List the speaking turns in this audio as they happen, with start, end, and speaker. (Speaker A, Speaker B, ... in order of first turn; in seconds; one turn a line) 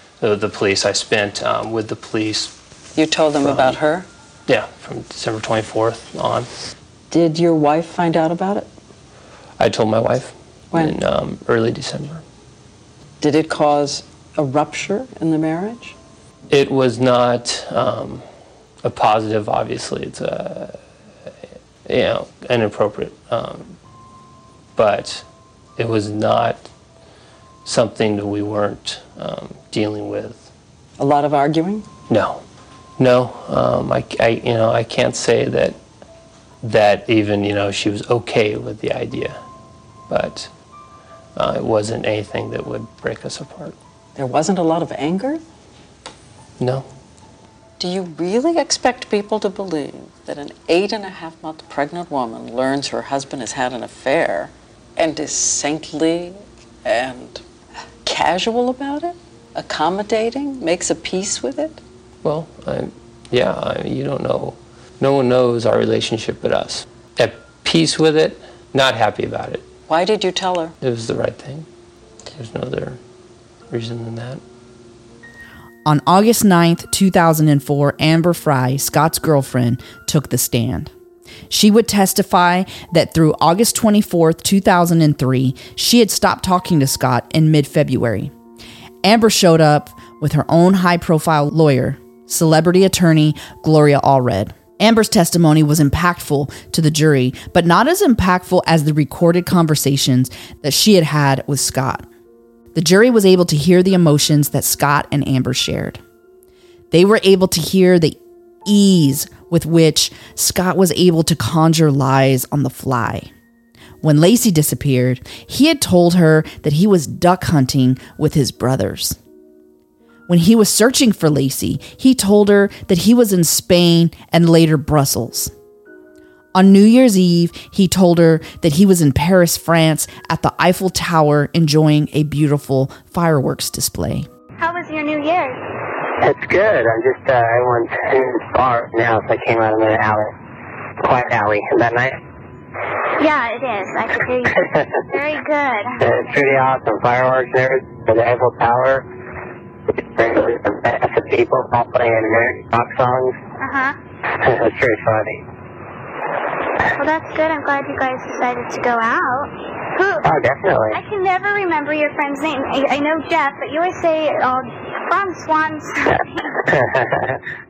Speaker A: 0.2-2.6
Speaker B: 3.0-4.1
Speaker A: 3.4-3.8
Speaker A: 4.5-6.5
Speaker B: 7.1-8.7
Speaker A: 9.6-12.2
Speaker B: 13.2-15.9
Speaker A: 16.5-18.2
Speaker A: 18.8-20.8
Speaker A: 21.9-23.8
Speaker A: 24.8-25.3
Speaker A: 25.8-26.7
Speaker A: 27.6-30.5
Speaker B: 31.0-31.9
Speaker A: 32.1-32.4
Speaker A: 33.0-35.8
Speaker A: 36.6-39.4
Speaker A: 40.1-40.5
Speaker A: 41.4-43.8
Speaker B: 44.2-45.4
Speaker A: 46.6-46.9
Speaker B: 47.8-57.4
Speaker B: 58.0-61.8
Speaker A: 62.2-69.7
Speaker B: 69.9-70.8
Speaker A: 70.8-71.7
Speaker A: 72.3-73.0
Speaker A: 73.7-74.4
Speaker C: 75.9-80.9
Speaker C: 81.5-88.3
Speaker C: 89.0-102.1
Speaker C: 102.8-106.0
Speaker C: 106.9-113.3
Speaker C: 114.0-119.2
Speaker C: 120.3-125.5
Speaker C: 126.5-134.3
Speaker D: 134.6-135.6
Speaker E: 136.2-140.3
Speaker E: 141.0-142.2
Speaker D: 143.2-146.1
Speaker E: 144.6-145.0
Speaker E: 146.0-149.1
Speaker E: 149.9-153.3
Speaker D: 153.6-154.0
Speaker E: 154.3-155.4
Speaker D: 157.0-160.3
Speaker E: 160.2-161.0
Speaker D: 160.9-166.5
Speaker E: 166.7-167.3